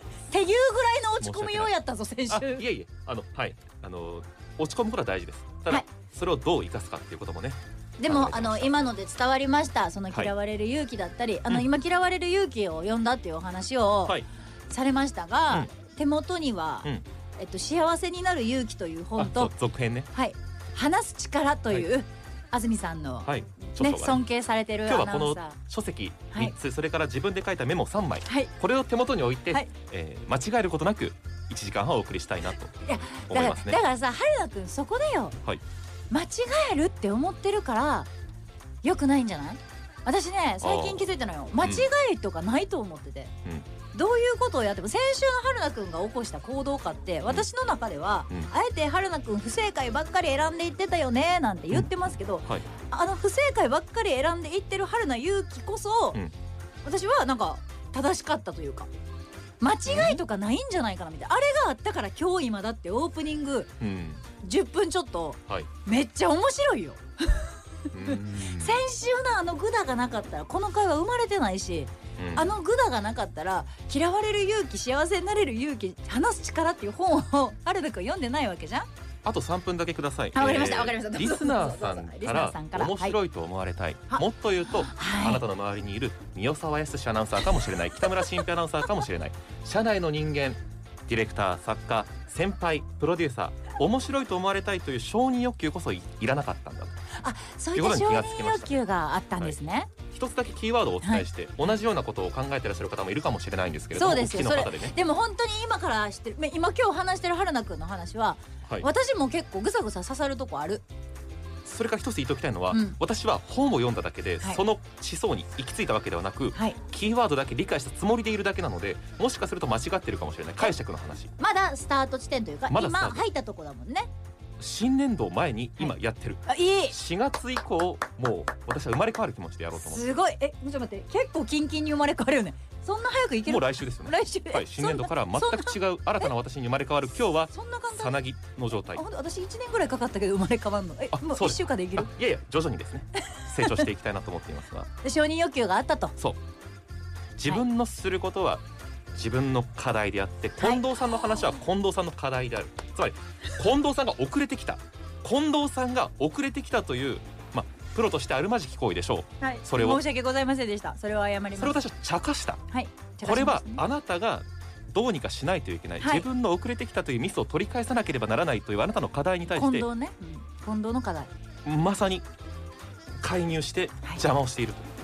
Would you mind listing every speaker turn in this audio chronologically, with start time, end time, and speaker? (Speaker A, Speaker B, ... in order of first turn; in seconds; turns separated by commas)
Speaker A: 0.3-2.7, Speaker B: 1.2-1.7, Speaker B: 2.3-8.8, Speaker A: 8.0-19.5, Speaker B: 19.2-20.1, Speaker A: 20.1-25.6, Speaker B: 23.2-24.2, Speaker B: 24.9-32.8, Speaker A: 32.8-35.4, Speaker B: 33.3-33.8, Speaker A: 36.1-38.1, Speaker A: 38.8-43.3, Speaker B: 40.6-41.1, Speaker B: 41.6-41.9, Speaker A: 43.9-56.2, Speaker B: 51.7-52.6, Speaker A: 56.8-58.9, Speaker A: 59.6-63.7, Speaker B: 59.9-60.2, Speaker B: 63.8-64.2, Speaker A: 64.4-78.9, Speaker B: 67.9-68.8, Speaker B: 72.2-72.5, Speaker B: 79.2-97.0, Speaker A: 80.3-83.2, Speaker A: 84.8-85.4, Speaker A: 97.2-99.9, Speaker B: 97.8-98.8, Speaker B: 100.1-105.0, Speaker A: 104.0-110.8, Speaker B: 111.7-121.3, Speaker A: 112.7-113.0, Speaker A: 116.5-116.8, Speaker A: 121.4-124.1, Speaker B: 122.7-123.2, Speaker B: 124.6-130.1, Speaker A: 126.5-127.0, Speaker A: 129.8-136.3, Speaker B: 133.5-139.0, Speaker A: 137.5-138.2, Speaker A: 138.9-142.1, Speaker B: 141.1-144.9, Speaker A: 143.2-143.8, Speaker A: 145.0-146.2, Speaker B: 147.4-160.0, Speaker A: 150.6-151.4, Speaker A: 159.4-161.8, Speaker B: 161.6-162.6, Speaker A: 162.7-163.8, Speaker B: 163.2-169.9, Speaker A: 166.0-166.3, Speaker A: 169.5-171.3, Speaker B: 171.6-172.2, Speaker B: 173.2-174.9